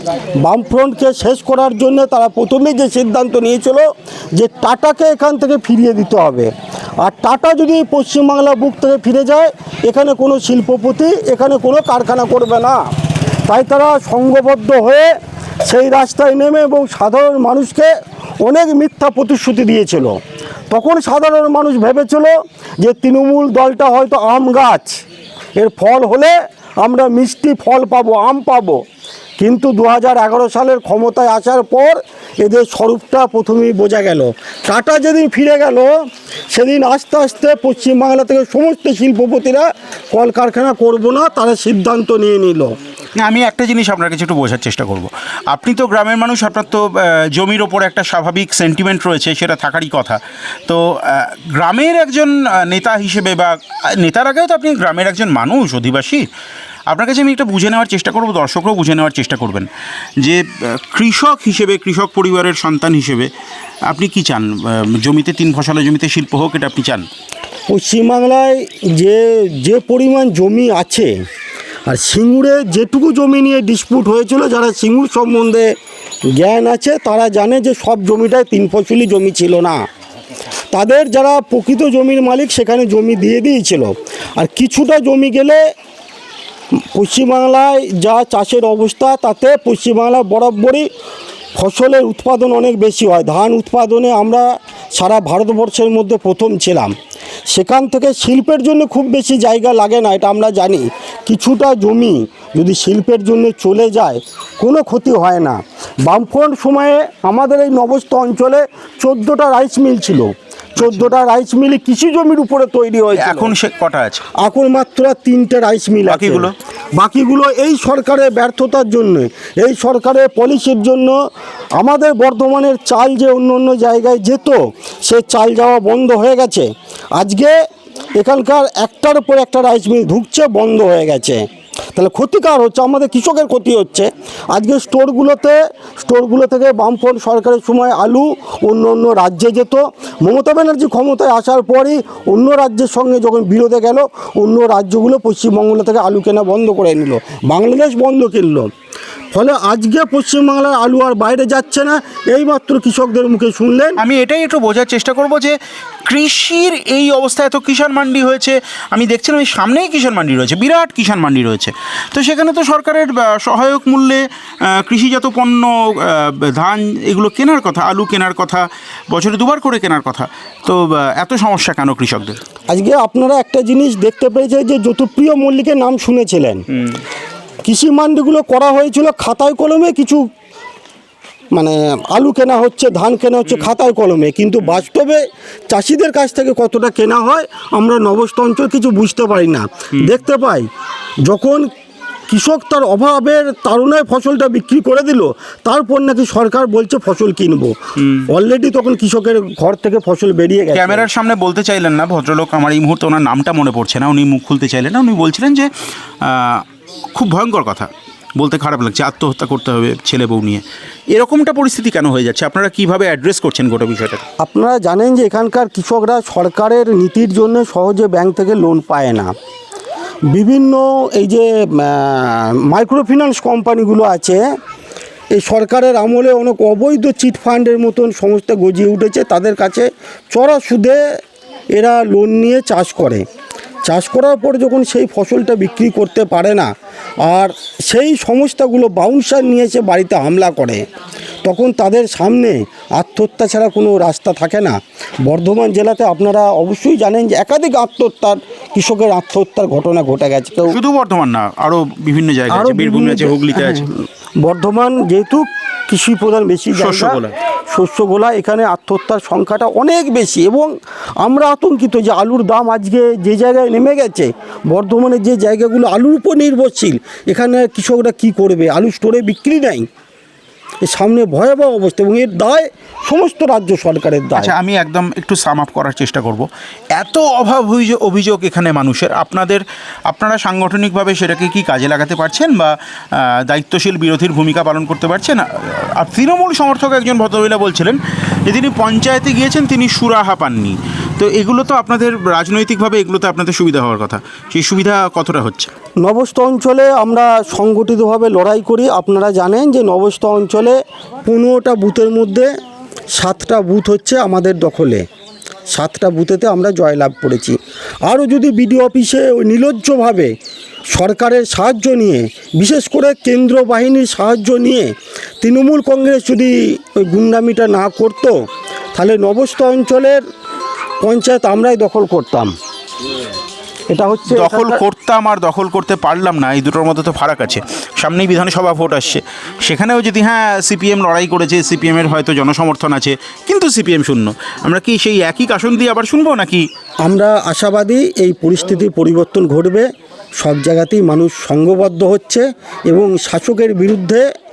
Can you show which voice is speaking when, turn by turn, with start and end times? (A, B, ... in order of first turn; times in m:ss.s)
0:00.4-0:12.8 A
0:13.5-0:15.1 A
0:15.7-0:25.0 A
0:25.6-0:28.8 A
0:29.4-0:35.9 A
0:36.5-0:42.8 A
0:43.2-0:56.3 B
0:56.9-0:59.7 B
1:00.2-1:03.3 B
1:03.9-1:07.0 B
1:07.7-1:11.1 A
1:11.9-1:15.7 A
1:16.3-1:19.8 A
1:20.7-1:25.7 A
1:26.9-1:30.9 A
1:31.6-1:36.9 A
1:37.5-1:53.5 A
1:50.8-1:51.1 B
1:53.1-1:54.2 B
1:54.4-2:01.1 A
1:56.1-1:56.5 B
2:01.8-2:07.6 A
2:08.2-2:28.7 A
2:29.3-2:34.0 A
2:34.0-2:52.4 B
2:52.7-2:56.6 A
2:56.7-2:57.0 B
2:57.6-3:00.2 A
3:01.5-3:10.7 A
3:11.2-3:11.7 A
3:12.3-3:21.1 A
3:18.0-3:18.3 B
3:20.7-3:25.7 B
3:26.2-3:34.2 B
3:34.4-3:39.3 A
3:40.3-3:44.4 A
3:45.3-3:51.0 A
3:51.7-3:53.2 A
3:53.8-3:56.7 A
3:57.2-4:00.8 A
4:01.4-4:10.8 A
4:10.7-4:13.8 B
4:12.5-4:29.9 A
4:16.7-4:17.3 B
4:30.8-4:34.5 A
4:34.4-4:55.7 B
4:56.0-5:02.5 A
5:03.1-5:05.0 A
5:05.7-5:10.3 A
5:10.9-5:20.2 A
5:21.0-5:22.5 A
5:23.9-5:24.8 A
5:24.3-5:36.7 B
5:37.0-5:44.3 A